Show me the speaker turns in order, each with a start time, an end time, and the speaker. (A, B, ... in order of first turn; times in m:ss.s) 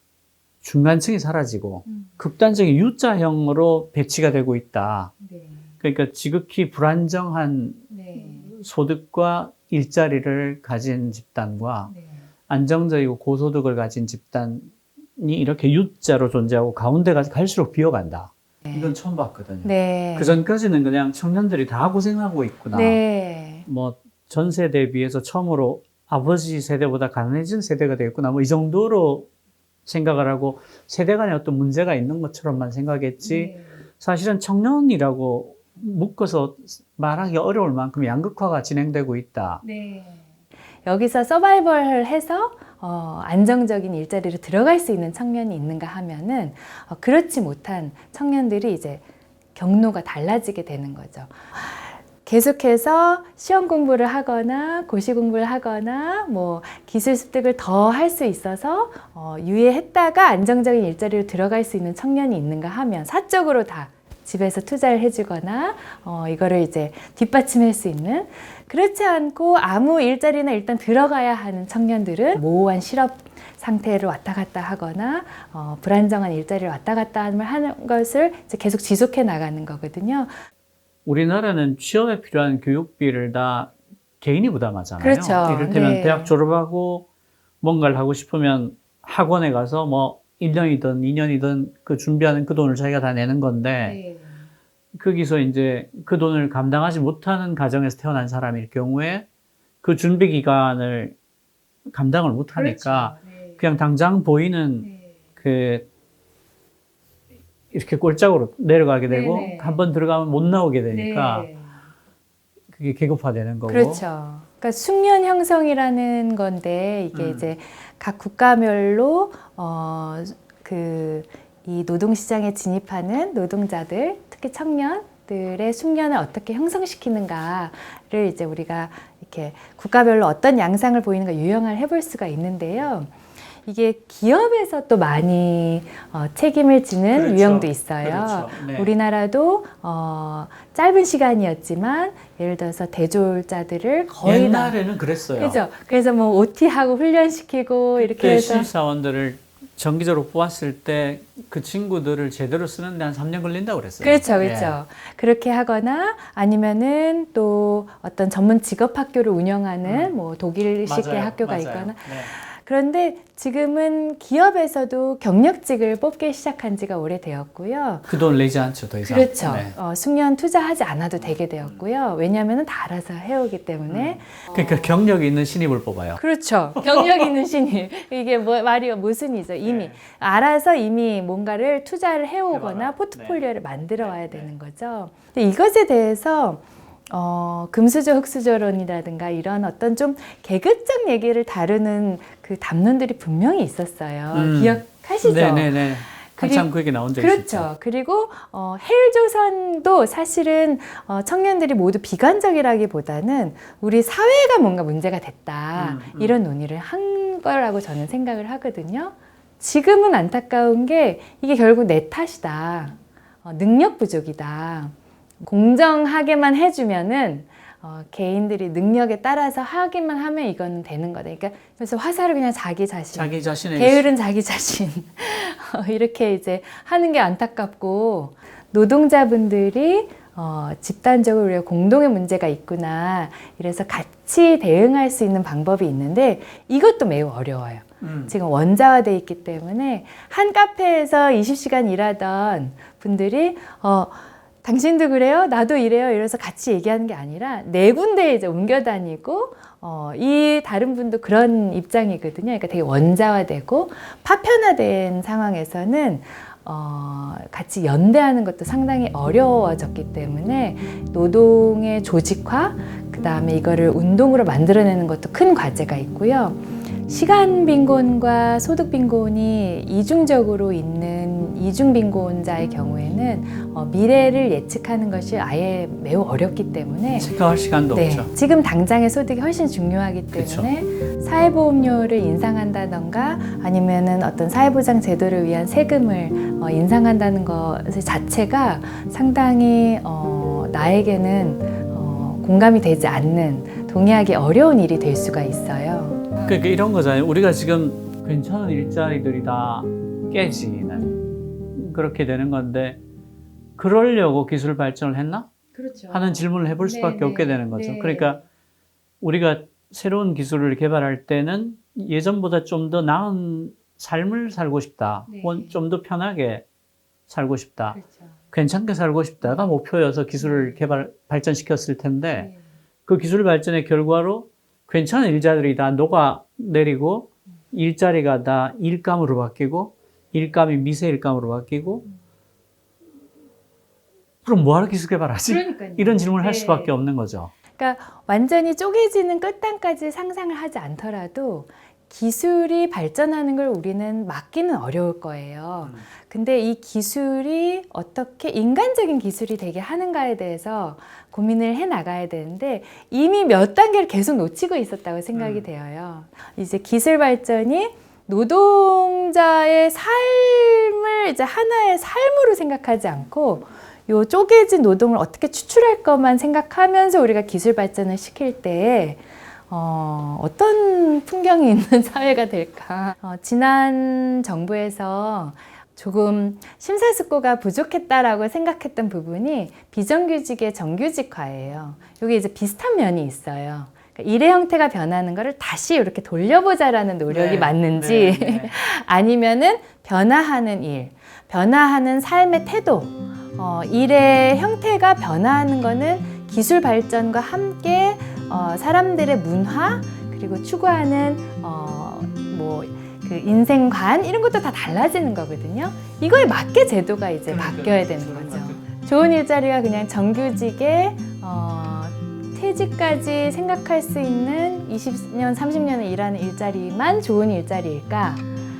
0:00.6-0:05.1 A
0:05.2-0:05.7 B
0:05.8-0:11.9 A
0:07.9-0:08.5 B
0:11.9-0:12.2 B
0:12.5-0:23.0 A
0:19.6-0:20.4 B
0:22.7-0:23.7 B
0:23.7-0:29.3 A
0:29.9-0:39.6 A
0:33.2-0:33.8 B
0:39.6-0:40.2 B
0:40.8-0:49.0 B
0:49.6-1:20.3 B
1:21.1-1:27.1 A
1:25.0-1:26.3 B
1:27.6-1:34.0 A
1:33.8-1:34.4 B
1:34.9-1:39.3 A
1:39.8-1:41.2 A
1:41.9-1:45.9 A
1:42.6-1:43.6 B
1:47.7-1:51.5 A
1:49.1-1:49.8 B
1:50.9-1:51.7 B
1:52.7-1:54.0 A
1:53.7-2:13.1 B
1:57.1-1:57.5 A
2:13.7-2:24.8 B
2:17.1-2:18.9 A
2:24.2-2:25.6 A
2:25.4-2:28.7 B
2:28.0-2:34.8 A
2:34.0-2:48.2 B
2:39.8-2:40.1 A
2:40.8-2:42.3 A
2:48.1-2:49.8 A
2:49.0-2:54.6 B
2:51.2-2:51.7 A
2:53.9-2:56.2 A
2:56.2-4:37.4 B
2:56.8-2:57.1 A
2:59.6-3:00.0 A
3:02.5-3:03.4 A
3:04.0-3:04.5 A
3:14.3-3:17.7 A
3:25.8-3:26.4 A
3:43.1-3:44.1 A
3:58.0-3:58.3 A
4:37.1-4:38.3 A
4:37.9-4:56.4 B
4:40.3-4:40.7 A
4:56.4-5:01.1 A
5:00.9-5:01.4 B
5:01.7-5:03.0 A
5:03.8-5:05.5 A
5:05.8-5:08.4 B
5:06.1-5:08.4 A
5:09.2-5:16.6 A
5:15.3-5:15.8 B
5:17.3-5:22.5 A
5:17.9-5:18.3 B
5:20.4-5:20.8 B
5:23.1-5:32.1 A
5:34.4-5:37.5 A
5:35.5-5:36.9 B
5:37.8-6:58.5 B
5:55.3-5:55.7 A
6:27.3-6:28.7 A
6:47.5-6:48.8 A